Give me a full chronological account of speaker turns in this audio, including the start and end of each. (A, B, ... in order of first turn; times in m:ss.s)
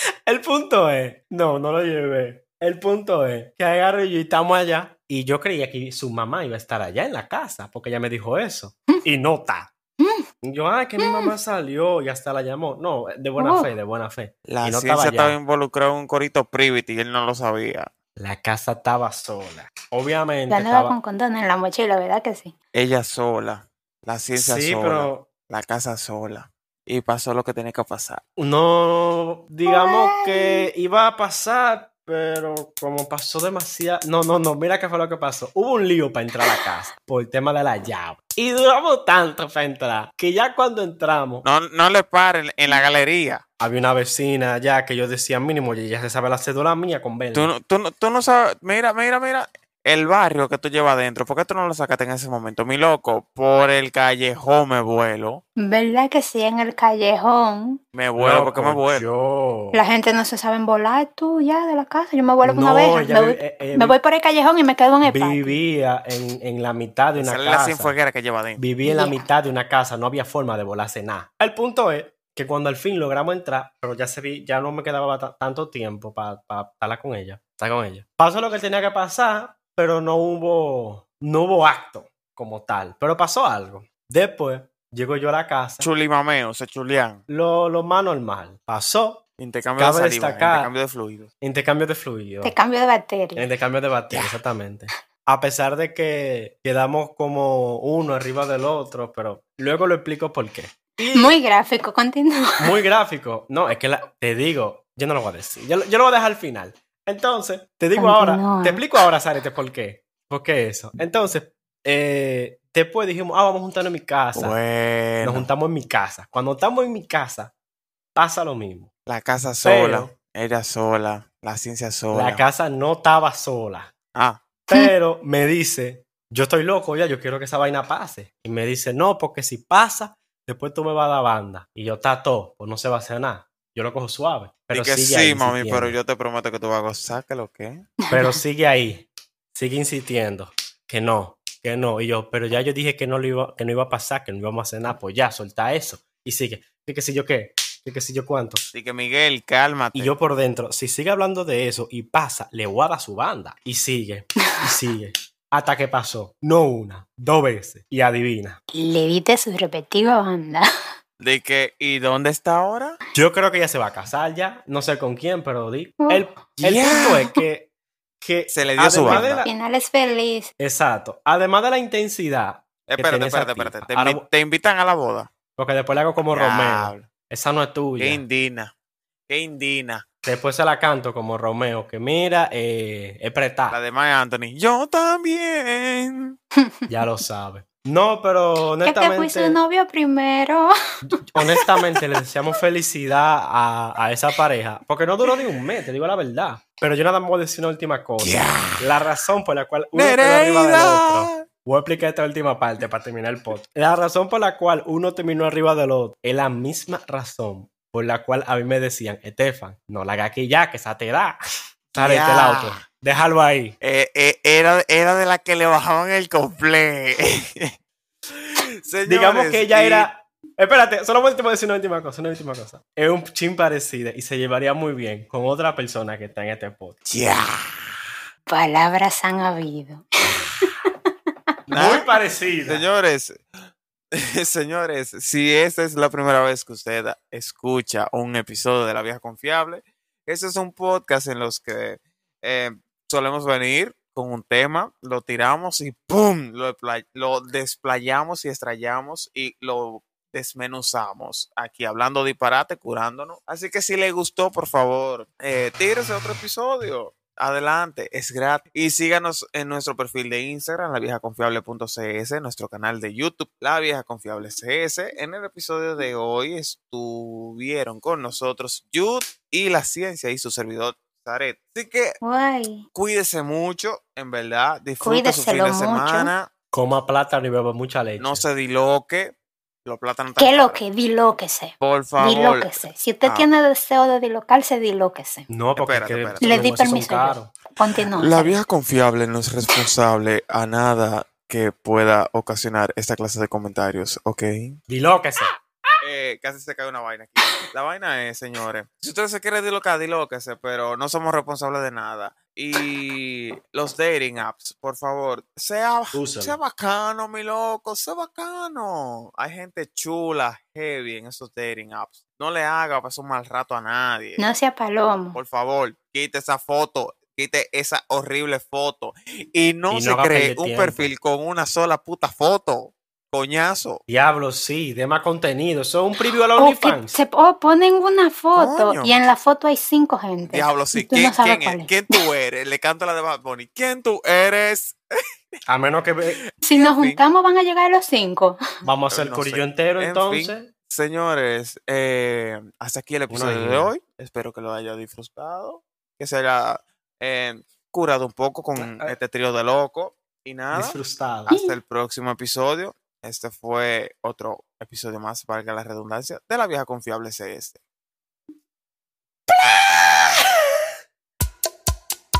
0:00.3-0:09.7 A
0:10.0-0:10.2 B
0:10.4-0:15.4 A
0:11.0-0:11.3 B
0:13.4-0:13.7 B
0:14.5-0:17.9 C
0:18.2-0:20.9 A
0:20.5-0:22.5 B
0:22.7-0:28.2 C
0:24.4-0:25.3 A
0:28.4-0:41.4 A
0:29.7-0:30.7 B
0:41.4-0:43.4 C
0:43.6-0:47.5 A
0:47.3-0:55.4 C
0:55.6-0:57.8 B
0:57.9-0:59.0 C
0:58.2-0:59.8 A
0:59.7-1:05.6 B
1:02.4-1:04.0 A
1:05.0-1:07.9 A
1:07.2-1:08.6 C
1:08.6-1:25.9 A
1:08.8-1:09.3 B
1:25.8-1:27.2 C
1:27.3-1:29.2 A
1:29.4-1:31.3 C
1:29.8-1:30.7 A
1:31.4-1:32.5 A
1:32.4-1:33.5 B
1:33.3-1:41.4 A
1:41.1-1:42.7 B
1:42.6-1:54.6 A
1:48.0-1:48.9 B
1:54.3-1:55.5 C
1:55.2-1:57.5 A
1:58.1-1:58.9 A
1:59.0-2:02.4 C
1:59.6-2:00.1 A
2:02.1-2:03.9 A
2:04.1-2:04.4 C
2:04.7-2:16.0 A
2:14.7-2:17.9 C
2:18.0-2:18.4 B
2:18.1-2:28.7 A
2:28.7-2:30.1 C
2:29.9-2:38.6 A
2:38.7-2:40.7 B
2:41.2-2:43.0 C
2:43.1-2:47.7 A
2:46.0-2:46.3 B
2:46.6-2:47.2 C
2:46.9-2:47.2 B
2:48.2-2:49.5 A
2:48.5-2:49.4 C
2:49.1-2:50.5 B
2:50.6-2:54.2 A
2:52.9-2:55.3 C
2:55.6-2:58.2 A
2:56.3-2:57.1 C
2:58.0-2:58.7 C
2:59.3-3:00.0 C
3:00.2-3:03.8 A
3:03.7-3:06.4 C
3:06.6-3:06.9 B
3:06.9-3:09.6 A
3:08.8-3:10.7 B
3:11.1-3:31.4 A
3:18.2-3:18.8 C
3:19.9-3:21.4 C
3:31.9-3:33.8 A
3:32.0-3:32.8 C
3:33.8-3:37.7 C
3:38.3-3:40.1 C
3:39.0-3:47.0 A
3:47.1-3:48.0 C
3:48.5-3:50.0 B
3:50.6-3:51.1 B
3:51.7-3:52.1 C
3:51.7-3:52.9 A
3:52.6-3:53.4 C
3:54.1-4:32.2 C
4:32.2-4:32.8 B
4:32.9-4:36.5 C
4:35.0-4:36.3 B
4:36.7-4:38.4 A
4:38.2-4:40.8 C
4:40.4-4:45.5 B
4:41.8-4:42.7 C
4:45.5-4:47.5 A
4:45.8-4:46.7 C
4:46.4-4:48.6 B
4:48.2-4:54.8 C
4:54.9-4:55.5 A
4:56.0-5:14.4 C
5:06.1-5:06.6 A
5:14.4-5:15.4 B
5:15.3-5:24.0 C
5:19.9-5:21.1 A
5:24.1-5:27.2 A
5:26.6-5:32.0 B
5:28.5-5:29.2 C
5:30.4-5:35.0 C
5:35.7-5:36.4 A
5:36.6-5:37.2 C
5:36.6-5:38.6 B
5:38.8-5:40.7 A
5:39.1-5:57.8 C
5:43.3-5:43.9 A
5:48.8-5:49.2 A
5:50.7-5:51.5 A
5:51.5-5:51.8 B
5:59.9-6:00.2 C